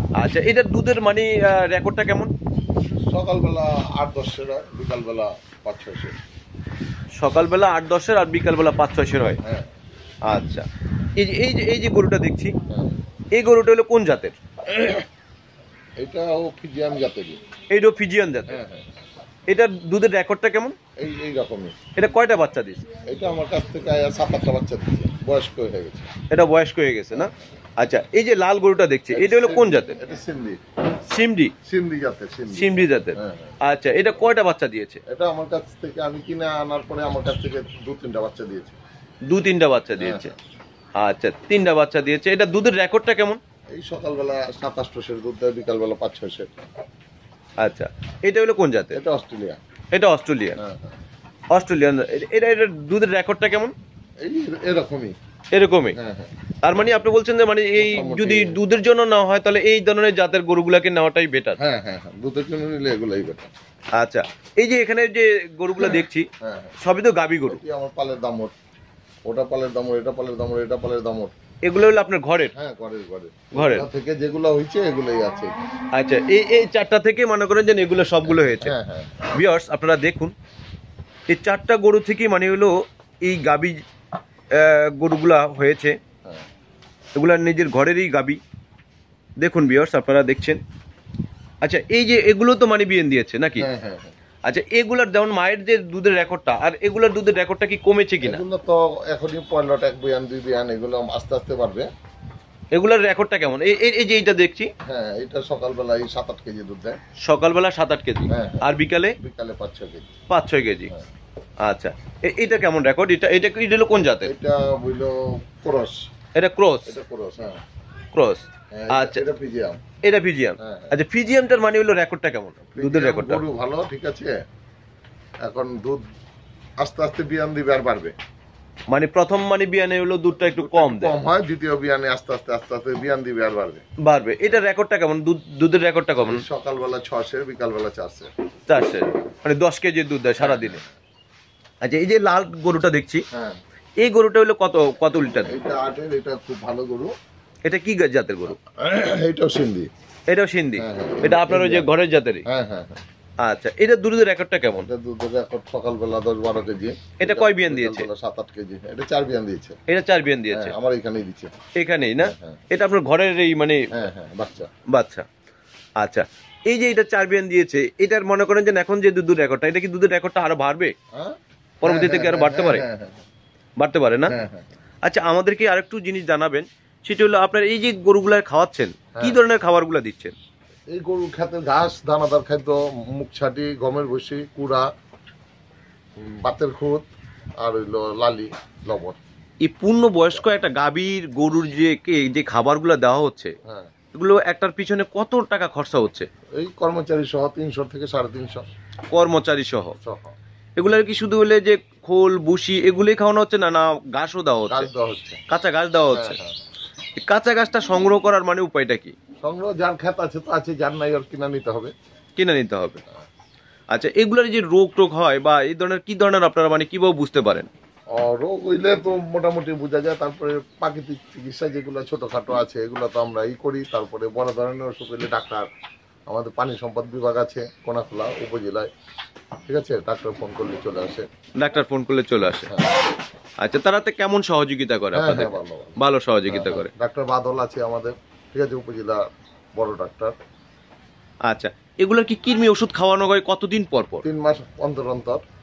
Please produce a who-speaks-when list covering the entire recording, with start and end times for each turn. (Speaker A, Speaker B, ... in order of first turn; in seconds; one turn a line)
Speaker A: 0.2-2.3
Speaker B: 3.1-6.2
Speaker A: 7.2-9.4
Speaker B: 9.4-9.7
Speaker A: 10.3-10.7
Speaker A: 11.2-12.6
Speaker B: 12.7-13.0
Speaker A: 13.3-14.4
Speaker B: 14.7-15.1
Speaker B: 16.0-17.4
Speaker A: 17.7-18.6
Speaker B: 18.5-19.0
Speaker A: 19.5-20.8
Speaker B: 21.0-21.8
Speaker A: 22.0-22.9
Speaker B: 23.1-26.1
Speaker A: 26.3-30.0
Speaker B: 29.1-30.6
Speaker A: 31.1-31.5
Speaker B: 31.6-33.5
Speaker A: 32.5-35.0
Speaker B: 35.1-38.8
Speaker A: 39.3-40.3
Speaker B: 40.0-40.4
Speaker A: 41.0-43.4
Speaker B: 43.8-46.6
Speaker A: 47.6-49.0
Speaker B: 48.9-49.6
Speaker A: 49.9-50.6
Speaker B: 50.6-51.0
Speaker A: 51.5-53.7
Speaker B: 54.2-55.1
Speaker A: 55.5-56.0
Speaker B: 56.0-56.3
Speaker A: 56.6-61.6
Speaker B: 57.8-58.6
Speaker B: 61.6-63.5
Speaker A: 63.9-66.3
Speaker B: 65.8-66.8
Speaker A: 66.8-67.6
Speaker B: 67.5-68.5
Speaker B: 69.3-71.3
Speaker A: 71.7-72.5
Speaker B: 72.5-75.5
Speaker A: 73.5-73.9
Speaker A: 75.9-78.8
Speaker B: 78.3-79.2
Speaker A: 79.3-80.3
Speaker A: 81.3-83.8
Speaker A: 84.5-86.0
Speaker A: 87.2-88.4
Speaker A: 89.4-90.6
Speaker A: 91.6-93.7
Speaker B: 93.6-94.1
Speaker A: 94.5-98.4
Speaker B: 98.2-101.9
Speaker A: 102.7-104.7
Speaker B: 104.9-107.0
Speaker A: 107.2-109.2
Speaker B: 108.3-110.1
Speaker A: 110.3-110.9
Speaker A: 111.6-114.3
Speaker B: 114.2-116.1
Speaker A: 116.4-117.0
Speaker B: 116.9-117.6
Speaker A: 118.1-119.2
Speaker B: 118.7-119.8
Speaker A: 120.0-123.4
Speaker B: 120.6-120.9
Speaker B: 122.8-124.4
Speaker B: 125.5-126.0
Speaker B: 126.8-128.1
Speaker A: 128.9-131.2
Speaker B: 130.4-133.8
Speaker A: 134.1-136.4
Speaker B: 136.2-138.3
Speaker A: 138.7-140.8
Speaker B: 140.4-140.9
Speaker A: 141.8-143.2
Speaker B: 143.3-143.6
Speaker A: 144.0-145.6
Speaker B: 145.2-147.1
Speaker A: 147.7-148.6
Speaker B: 148.8-149.9
Speaker A: 150.3-152.4
Speaker B: 150.8-151.9
Speaker B: 152.5-153.0
Speaker A: 153.4-154.9
Speaker B: 154.8-159.8
Speaker A: 157.2-158.1
Speaker A: 159.9-160.7
Speaker B: 160.5-161.5
Speaker A: 161.8-163.9
Speaker B: 162.2-162.6
Speaker B: 163.9-164.7
Speaker A: 164.9-165.3
Speaker A: 166.0-170.9
Speaker B: 171.1-173.2
Speaker A: 171.8-172.8
Speaker A: 173.8-174.3
Speaker B: 174.3-174.7
Speaker A: 175.0-180.3
Speaker B: 179.2-179.4
Speaker B: 180.9-184.9
Speaker B: 186.2-187.1
Speaker B: 187.6-189.2
Speaker A: 189.6-193.5
Speaker B: 193.7-193.9
Speaker A: 194.1-196.3
Speaker B: 196.6-198.7
Speaker A: 199.1-199.9
Speaker B: 200.0-200.3
Speaker A: 200.8-204.9
Speaker B: 204.7-205.4
Speaker A: 205.5-206.4
Speaker B: 206.1-206.6
Speaker A: 207.2-209.1
Speaker B: 209.4-211.9
Speaker A: 212.4-213.0
Speaker A: 213.9-217.7
Speaker B: 218.1-225.7
Speaker B: 226.3-228.9
Speaker B: 229.7-231.2
Speaker A: 231.6-232.8
Speaker B: 232.7-233.0
Speaker A: 233.6-236.9
Speaker B: 235.1-236.0
Speaker B: 236.5-239.2
Speaker B: 239.8-240.3
Speaker A: 241.5-244.2
Speaker B: 244.2-245.4